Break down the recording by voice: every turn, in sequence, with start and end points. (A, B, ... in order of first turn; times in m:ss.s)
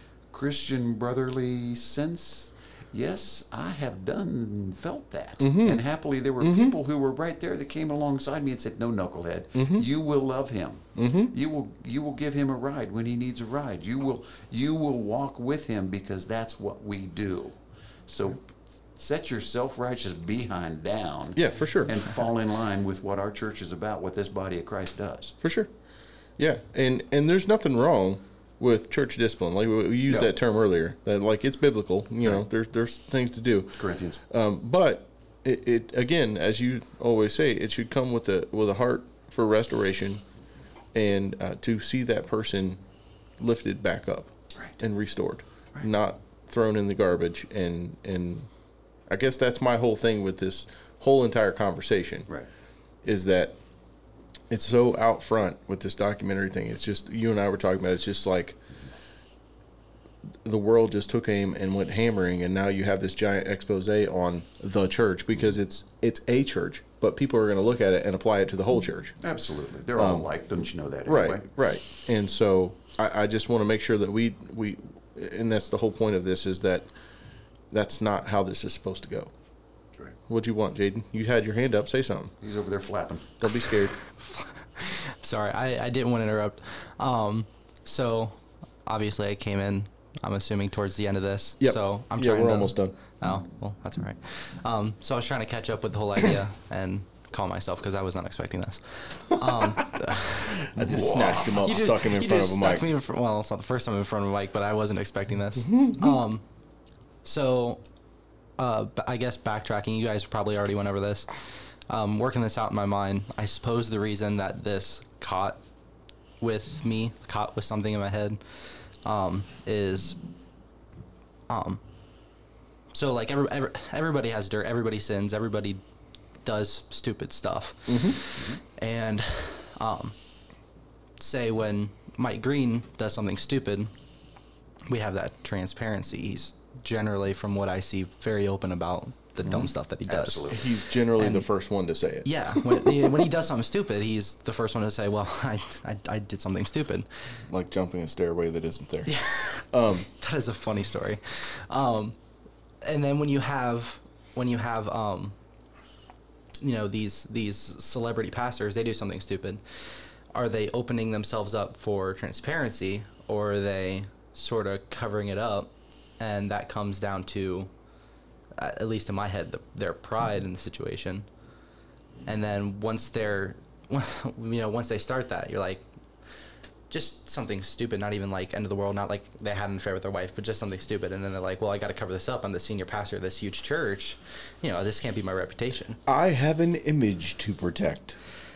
0:00.3-0:25.4 A
0:05.4-0:05.8 B
0:06.4-0:06.7 B
0:09.6-0:09.9 B
0:11.0-0:11.3 B
0:21.4-0:22.0 B
0:25.4-0:25.7 B
0:26.4-0:40.2 B
0:30.1-0:30.3 A
0:33.8-0:34.2 A
0:41.0-0:42.8 B
0:43.4-0:48.5 B
0:49.1-0:52.3 B
0:53.0-0:53.6 B
0:54.5-0:58.6 B
1:00.4-1:09.2 B
1:09.2-1:11.5 A
1:10.0-1:10.3 B
1:11.1-1:16.9 B
1:17.7-1:19.3 B
1:20.3-1:22.3 B
1:22.4-1:23.7 A
1:23.4-1:24.0 B
1:24.0-1:46.4 C
1:31.6-1:33.0 B
1:39.5-1:42.8 B
1:40.8-1:41.6 A
1:45.7-1:46.1 B
1:47.2-1:47.8 C
1:48.6-1:55.6 C
1:56.4-2:00.2 C
2:01.5-2:01.8 C
2:02.9-2:05.8 C
2:06.4-2:10.2 C
2:07.9-2:08.2 B
2:08.4-2:08.6 A
2:11.2-2:13.9 C
2:14.9-2:21.5 C
2:19.4-2:20.7 A
2:20.5-2:23.2 B
2:22.2-2:27.1 C
2:27.5-2:30.1 B
2:29.1-2:32.2 C
2:32.8-2:35.4 C
2:36.6-2:47.7 C
2:48.6-2:51.3 C
2:52.2-2:55.8 C
2:56.9-3:06.0 C
3:06.1-3:08.2 B